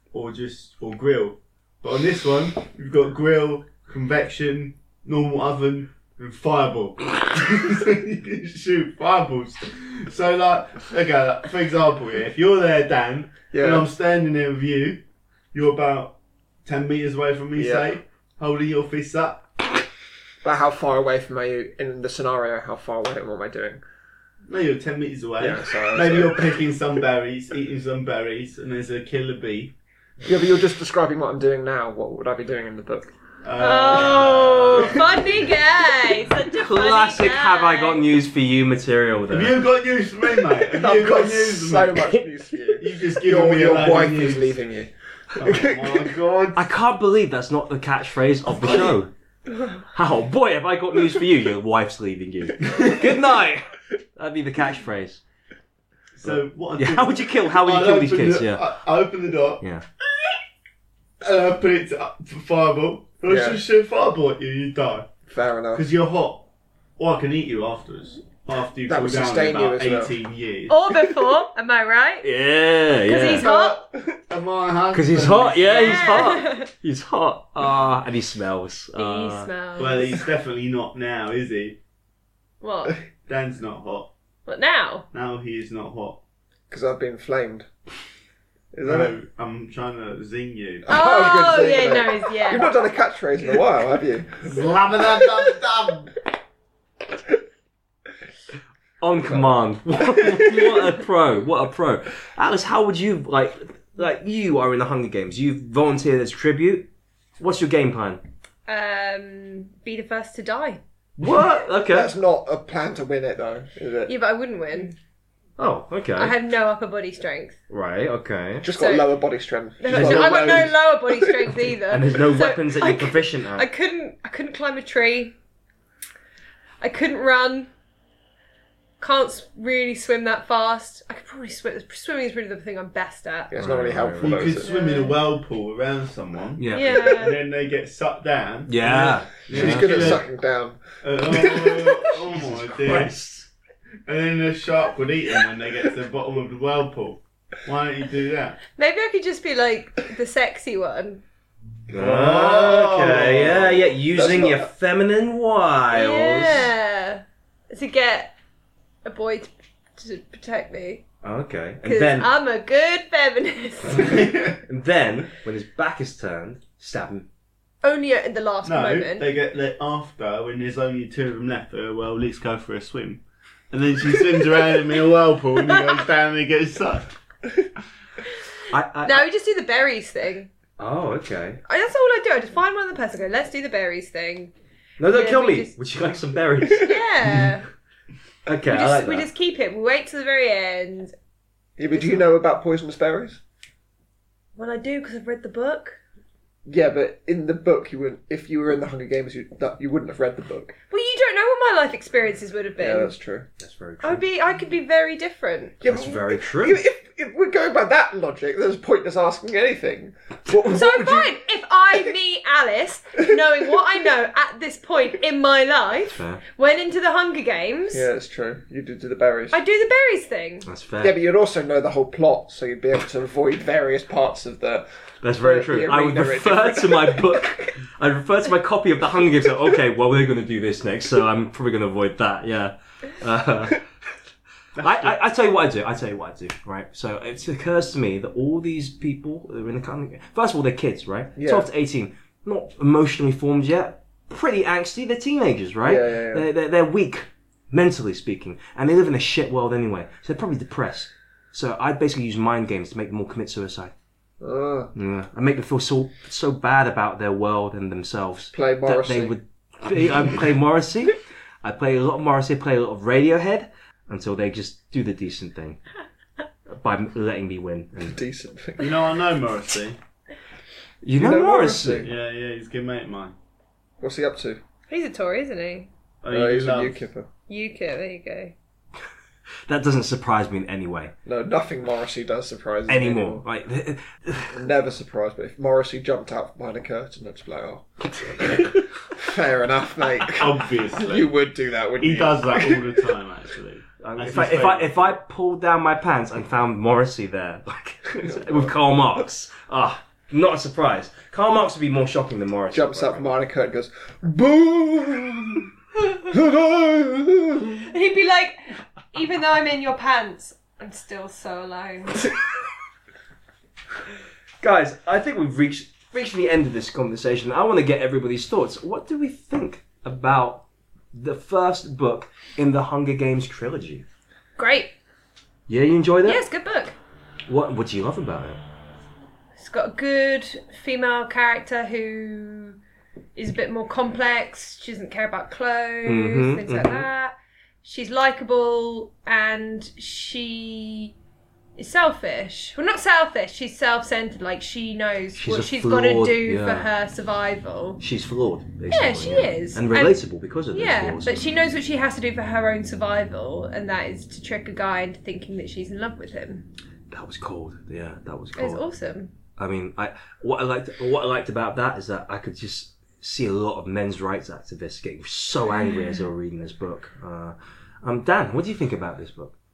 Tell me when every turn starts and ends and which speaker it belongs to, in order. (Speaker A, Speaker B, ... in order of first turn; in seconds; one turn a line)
Speaker A: 0.1-15.0
Speaker B: 13.5-13.9
Speaker A: 15.5-19.4
Speaker B: 17.6-17.9
Speaker B: 20.4-23.8
Speaker A: 24.5-29.7
Speaker B: 25.4-26.6
Speaker B: 30.2-33.1
Speaker A: 33.4-35.1
Speaker C: 33.6-38.1
Speaker D: 36.5-39.6
Speaker A: 39.3-42.2
Speaker B: 40.5-46.1
Speaker A: 42.8-44.6
Speaker A: 45.3-46.7
Speaker D: 46.5-49.1
Speaker D: 49.8-55.2
Speaker A: 52.7-52.9
Speaker A: 56.2-59.6
Speaker D: 56.2-58.6
Speaker A: 61.2-65.1
Speaker B: 63.2-63.6
Speaker B: 65.3-65.8
Speaker A: 65.7-70.9
Speaker B: 68.8-70.1
Speaker C: 70.7-72.3
Speaker D: 72.2-73.5
Speaker C: 73.0-73.8
Speaker A: 73.4-76.3
Speaker B: 73.4-74.2
Speaker D: 74.9-79.5
Speaker C: 75.7-76.7
Speaker C: 79.0-80.2
Speaker A: 79.8-81.8
Speaker C: 82.6-83.0
Speaker A: 83.3-84.1
Speaker C: 84.5-85.0
Speaker A: 85.1-86.2
Speaker B: 86.7-87.7
Speaker B: 88.7-89.2
Speaker A: 88.8-90.9
Speaker B: 90.8-94.5
Speaker C: 90.9-92.7
Speaker A: 94.4-96.2
Speaker D: 99.0-108.2
Speaker B: 100.2-100.7
Speaker C: 108.7-110.8
Speaker D: 111.2-112.1
Speaker B: 111.9-114.2
Speaker C: 114.1-115.0
Speaker D: 115.6-116.3
Speaker C: 116.2-117.6
Speaker D: 117.7-118.7
Speaker B: 118.6-121.7
Speaker C: 118.7-119.1
Speaker C: 119.8-125.3
Speaker D: 119.9-120.6
Speaker A: 119.9-120.7
Speaker D: 121.9-123.7
Speaker C: 126.8-127.7
Speaker C: 129.0-133.5
Speaker B: 133.5-134.8
Speaker D: 133.6-134.4
Speaker A: 134.2-140.2
Speaker C: 134.6-135.2
Speaker D: 136.6-137.2
Speaker C: 136.7-137.4
Speaker D: 138.7-140.2
Speaker B: 139.5-142.2
Speaker A: 141.0-143.1
Speaker D: 142.8-143.5
Speaker A: 144.1-148.6
Speaker C: 148.8-151.2
Speaker D: 151.9-156.7
Speaker A: 151.9-153.8
Speaker B: 154.1-154.7
Speaker C: 155.9-158.3
Speaker C: 159.0-161.0
Speaker D: 161.2-162.3
Speaker C: 161.8-164.4
Speaker A: 163.9-164.6
Speaker D: 164.7-167.3
Speaker C: 167.8-169.3
Speaker A: 168.6-177.1
Speaker C: 175.6-176.0
Speaker D: 178.7-179.2
Speaker C: 179.0-180.5
Speaker D: 180.8-181.6
Speaker C: 181.7-184.5
Speaker D: 185.0-186.9
Speaker C: 185.1-185.7
Speaker C: 186.7-187.7
Speaker D: 188.4-189.3
Speaker C: 188.7-191.1
Speaker B: 191.8-193.4
Speaker C: 191.9-192.2
Speaker C: 194.6-196.0
Speaker B: 196.7-200.8
Speaker C: 200.9-203.1
Speaker B: 202.8-203.5
Speaker D: 203.6-204.2
Speaker C: 204.0-205.9
Speaker B: 205.8-211.4
Speaker D: 205.8-206.8
Speaker C: 210.7-218.1
Speaker D: 216.1-216.4
Speaker B: 217.9-219.6
Speaker C: 219.5-220.7
Speaker D: 220.6-221.2
Speaker B: 221.0-227.6
Speaker D: 225.2-233.8
Speaker A: 234.8-235.2
Speaker D: 234.8-253.9
Speaker B: 241.3-241.7
Speaker B: 245.8-246.5
Speaker B: 254.4-254.9
Speaker D: 254.9-265.8
Speaker B: 258.5-259.4
Speaker D: 266.7-268.2
Speaker B: 268.0-269.1
Speaker A: 268.8-270.0
Speaker D: 271.0-272.1
Speaker B: 271.1-272.1
Speaker A: 272.0-273.3
Speaker B: 274.0-274.6
Speaker C: 274.9-275.9
Speaker A: 276.2-277.1
Speaker B: 276.3-277.3
Speaker C: 277.5-278.5
Speaker D: 279.7-281.1
Speaker B: 281.2-283.4
Speaker D: 282.9-284.6
Speaker B: 284.5-293.1
Speaker D: 288.2-288.7
Speaker A: 290.1-291.3
Speaker A: 292.0-295.2
Speaker D: 294.0-303.3
Speaker B: 298.2-298.7
Speaker B: 302.7-307.9
Speaker C: 307.8-312.3
Speaker D: 314.6-324.1
Speaker C: 324.6-324.9
Speaker D: 325.7-326.4
Speaker C: 326.2-326.9
Speaker D: 327.5-328.6
Speaker C: 329.6-332.8
Speaker C: 333.4-341.1
Speaker D: 336.0-337.1
Speaker C: 341.8-348.0
Speaker D: 345.3-346.9
Speaker D: 348.0-351.4
Speaker C: 348.9-356.7
Speaker D: 357.1-358.9
Speaker C: 358.6-359.3
Speaker D: 359.6-369.5